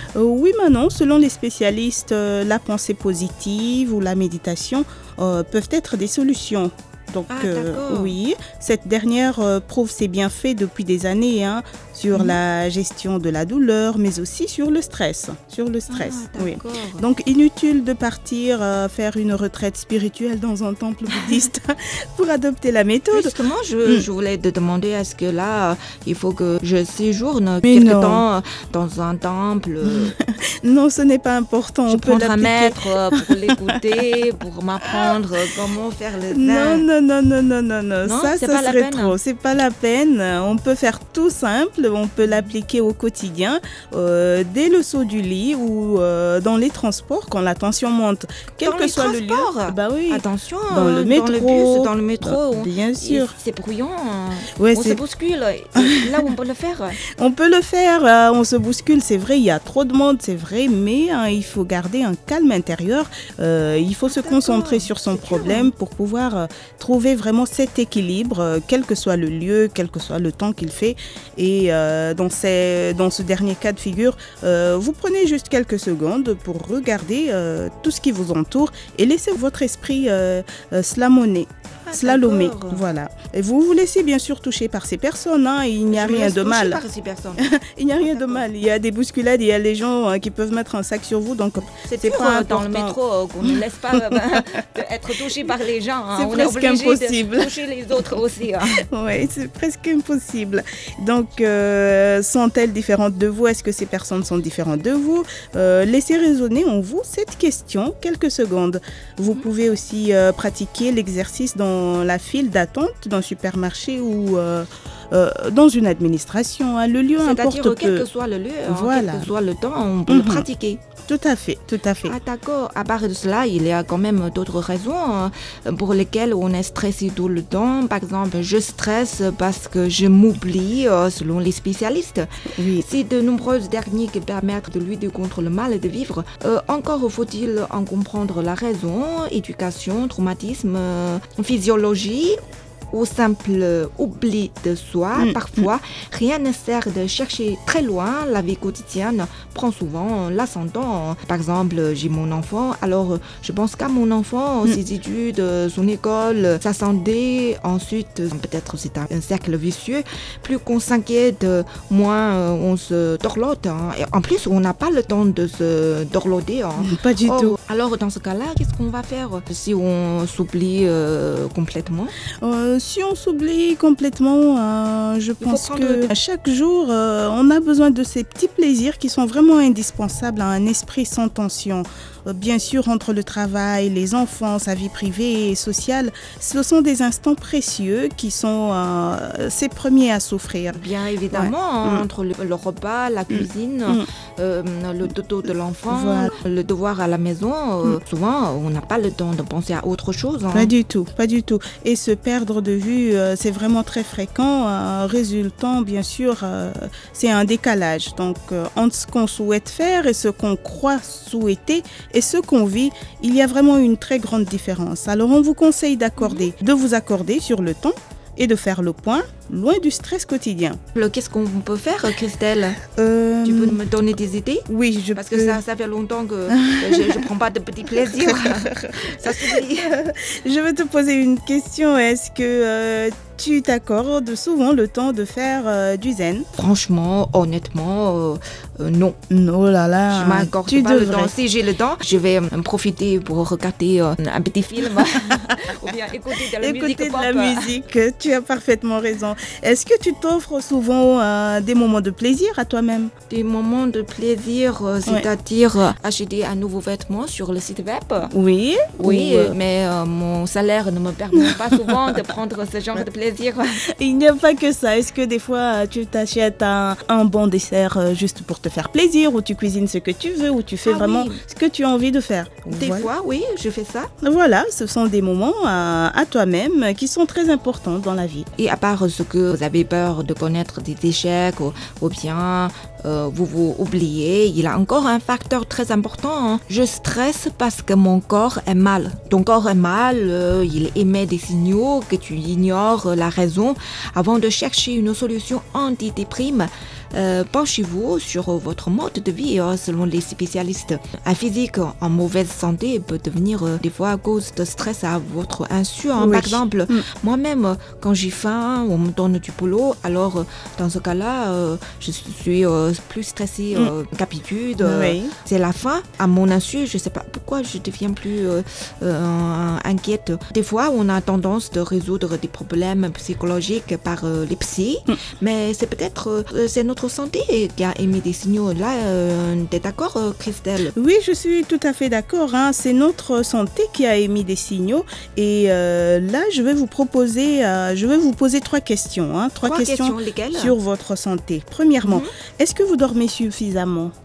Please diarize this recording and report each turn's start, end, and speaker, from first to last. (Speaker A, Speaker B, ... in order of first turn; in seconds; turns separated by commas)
Speaker A: 0.1-24.1, Speaker B: 7.3-8.2, Speaker B: 12.1-12.4, Speaker B: 15.9-17.1, Speaker B: 21.1-21.4, Speaker B: 23.1-30.1, Speaker A: 27.6-28.2, Speaker A: 29.8-33.9, Speaker B: 31.9-36.9, Speaker A: 34.8-35.1, Speaker A: 36.3-53.3, Speaker B: 38.0-39.2, Speaker B: 48.6-57.0, Speaker A: 54.6-55.0, Speaker A: 55.7-56.3, Speaker A: 57.2-86.8, Speaker B: 64.1-65.7, Speaker B: 81.8-82.8, Speaker B: 85.9-87.5, Speaker A: 87.4-94.4, Speaker B: 88.0-88.4, Speaker B: 91.8-98.8, Speaker A: 96.1-98.1, Speaker A: 98.7-118.1, Speaker B: 117.2-120.8, Speaker A: 118.7-119.3, Speaker A: 120.1-120.5, Speaker A: 121.1-122.1, Speaker B: 122.0-142.3, Speaker A: 132.6-132.8, Speaker B: 142.9-172.1, Speaker A: 145.2-145.7, Speaker A: 166.8-167.6, Speaker A: 172.4-192.1, Speaker B: 175.4-176.1, Speaker B: 190.7-200.7, Speaker A: 193.3-194.0, Speaker A: 195.9-196.3, Speaker A: 200.5-220.8, Speaker B: 216.2-216.5, Speaker B: 220.9-222.8, Speaker A: 222.9-223.8, Speaker B: 223.4-229.9, Speaker A: 224.7-225.6, Speaker A: 226.5-227.2, Speaker A: 227.9-236.5, Speaker B: 236.5-239.2, Speaker A: 239.3-241.3, Speaker B: 240.1-247.7, Speaker A: 246.4-253.1, Speaker B: 253.3-258.3, Speaker A: 258.3-259.5, Speaker B: 258.9-263.8, Speaker A: 261.3-262.2, Speaker A: 264.0-273.1, Speaker B: 270.8-271.4, Speaker B: 272.7-274.1, Speaker A: 274.2-278.5, Speaker B: 278.6-330.9, Speaker A: 306.2-307.0, Speaker A: 314.8-315.3, Speaker A: 330.9-344.1, Speaker B: 339.6-340.8, Speaker B: 342.0-342.3